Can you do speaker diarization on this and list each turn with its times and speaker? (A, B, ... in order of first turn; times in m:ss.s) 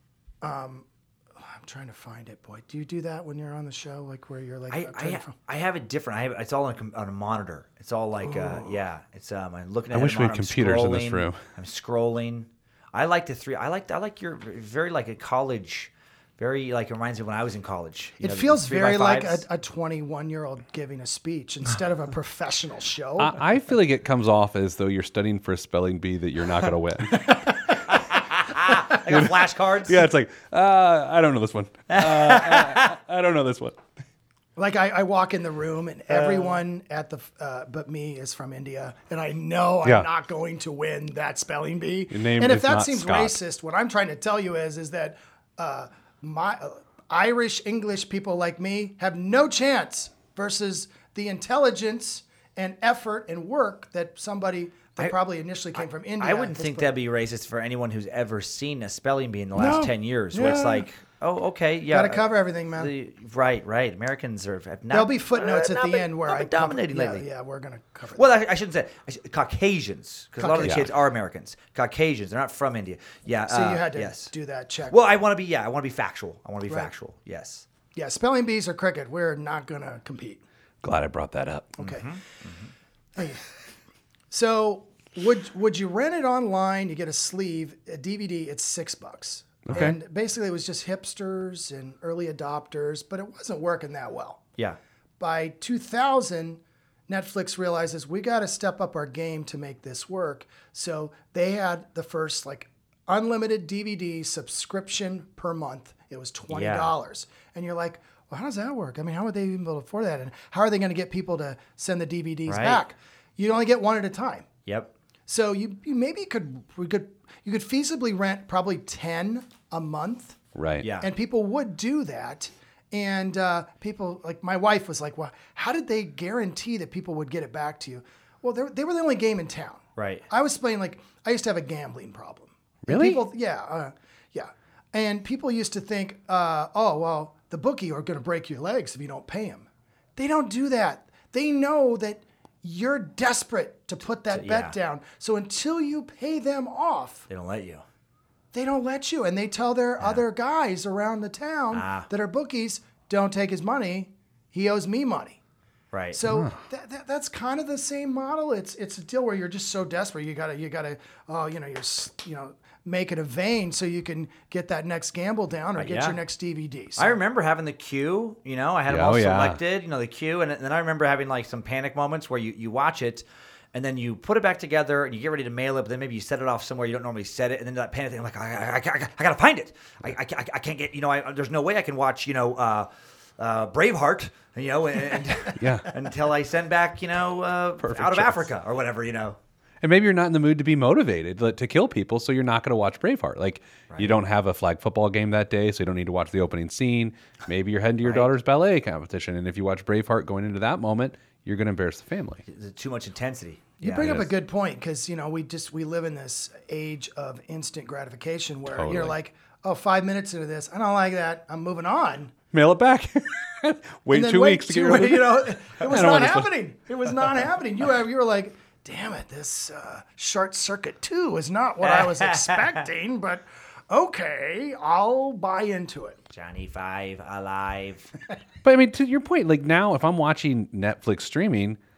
0:00.4-0:05.3 A
0:04.7-0:19.4 B
0:08.2-0:08.8 A
0:09.9-0:11.4 C
0:18.2-0:23.4 A
0:23.2-0:27.5 C
0:27.9-0:30.1 B
0:29.1-0:33.8 C
0:31.9-0:32.9 B
0:34.6-0:56.9 A
0:36.1-0:36.6 B
0:42.1-0:43.4 C
0:56.2-1:07.3 B
0:59.5-1:00.9 A
1:01.9-1:02.9 A
1:04.9-1:08.4 A
1:08.2-1:14.3 B
1:10.4-1:10.9 A
1:10.6-1:10.9 C
1:13.5-1:15.0 A
1:14.9-1:17.7 B
1:17.9-1:20.4 A
1:20.8-1:21.8 C
1:21.8-1:22.1 A
1:21.8-1:22.7 B
1:23.2-1:23.4 A
1:24.3-1:34.4 A
1:29.7-1:30.0 C
1:35.2-1:54.5 A
1:46.5-1:46.9 B
1:52.5-1:52.8 B
1:54.7-1:54.9 B
1:55.3-2:00.4 A
2:00.6-2:00.9 C
2:00.8-2:01.1 B
2:01.0-2:27.3 A
2:10.0-2:10.2 B
2:12.9-2:13.2 C
2:24.3-2:24.7 B
2:27.3-2:27.8 B
2:28.5-2:35.4 A
2:31.7-2:32.1 B
2:35.9-2:36.2 B
2:36.1-2:47.2 A
2:36.3-2:36.6 C
2:45.8-2:46.2 B
2:47.0-3:09.4 B
2:48.9-2:49.6 C
3:05.6-3:05.9 C
3:07.8-3:08.5 C
3:09.8-3:22.4 C
3:13.9-3:14.2 B
3:18.0-3:18.3 B
3:22.5-3:24.3 B
3:23.8-3:32.3 A
3:28.7-3:29.2 C
3:32.5-3:36.5 C
3:34.1-3:46.2 A
3:41.8-3:42.8 B
3:46.3-3:48.1 B
3:48.6-3:51.8 C